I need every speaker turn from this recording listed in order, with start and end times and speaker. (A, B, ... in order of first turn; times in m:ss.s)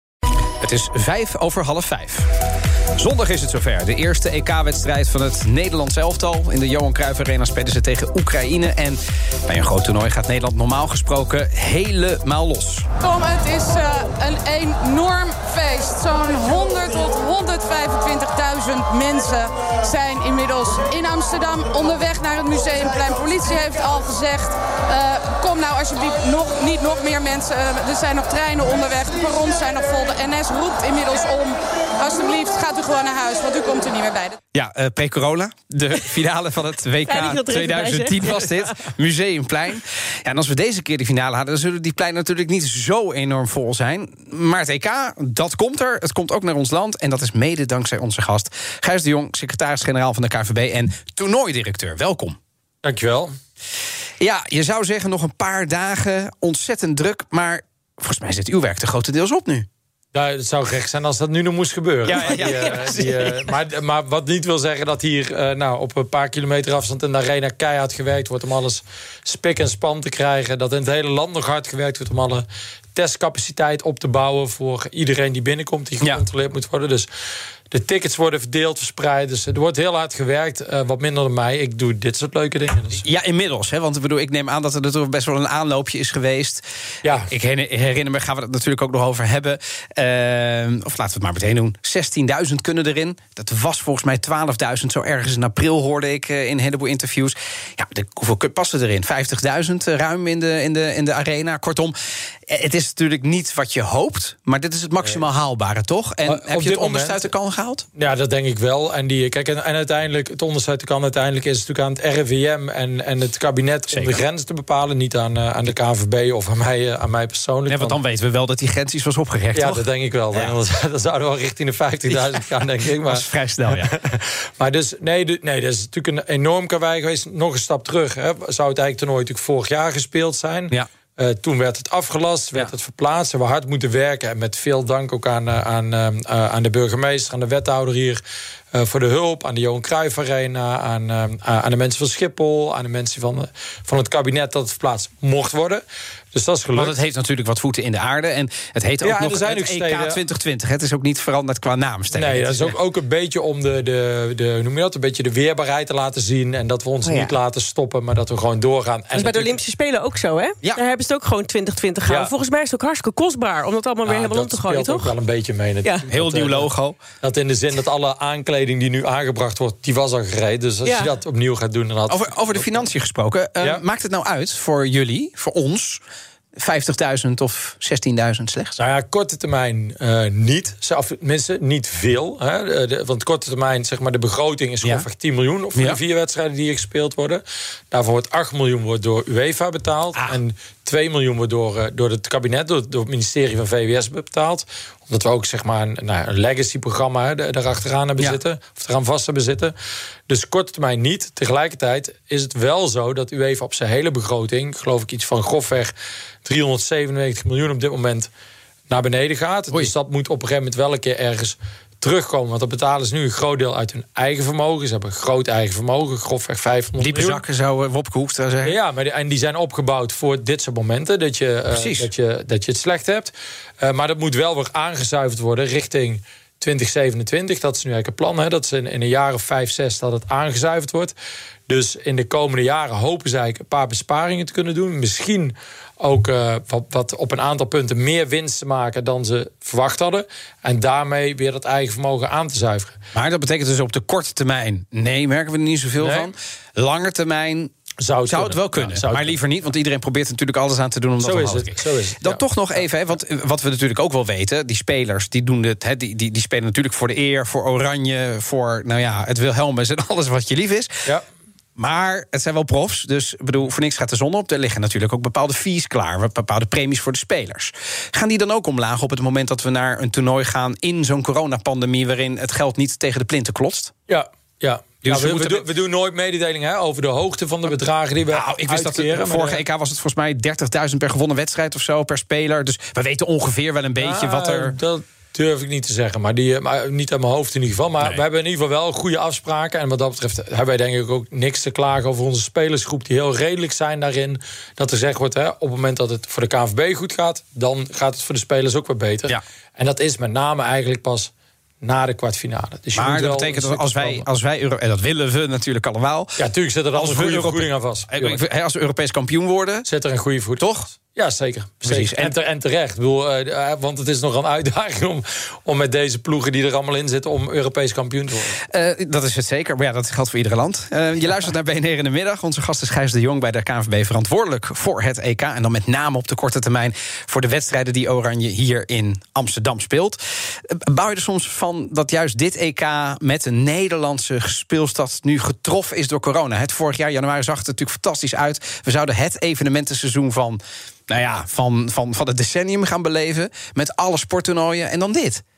0:00.6-0:02.3 A
0:03.0-0:12.9 A
0:13.0-0:34.4 B
0:34.5-0:52.4 A
0:37.0-0:38.8 C
0:52.8-0:53.3 D
0:54.2-0:59.7 A
1:00.1-1:17.1 D
1:02.0-1:03.5 A
1:17.7-1:23.0 D
1:23.0-1:26.6 A
1:27.0-1:27.3 D
1:27.3-1:41.9 A
1:42.5-1:47.8 A
1:46.2-1:47.2 D
1:48.0-1:58.0 D
1:53.9-1:54.2 A
1:57.7-2:00.6 A
1:59.5-2:18.2 D
2:02.1-2:03.9 A
2:18.7-2:27.0 D
2:26.7-2:32.8 A
2:29.0-2:30.2 D
2:32.1-2:39.6 D
2:37.0-2:37.4 C
2:39.1-2:45.2 C
2:42.0-2:42.3 D
2:44.0-2:52.9 D
2:46.1-2:47.0 A
2:50.8-2:51.2 C
2:52.1-2:56.0 A
2:56.6-2:58.8 A
2:58.8-3:19.8 D
3:20.3-3:25.9 D
3:26.4-3:28.3 D
3:28.9-3:37.4 D
3:37.0-3:38.8 A
3:38.6-3:51.2 D
3:41.7-3:42.1 A
3:51.7-4:03.0 D
4:03.1-4:07.7 A
4:06.0-4:06.3 D
4:08.0-4:09.4 D
4:08.3-4:21.0 A
4:11.2-4:12.8 D
4:21.8-4:33.9 A
4:34.1-4:39.6 D
4:35.0-4:35.6 A
4:38.3-4:44.8 A
4:44.0-5:04.3 D
5:03.0-5:06.4 A
5:06.4-5:08.4 D
5:06.9-5:09.9 A
5:09.8-5:18.6 D
5:10.6-5:10.9 A
5:11.8-5:12.3 A
5:18.6-5:45.4 A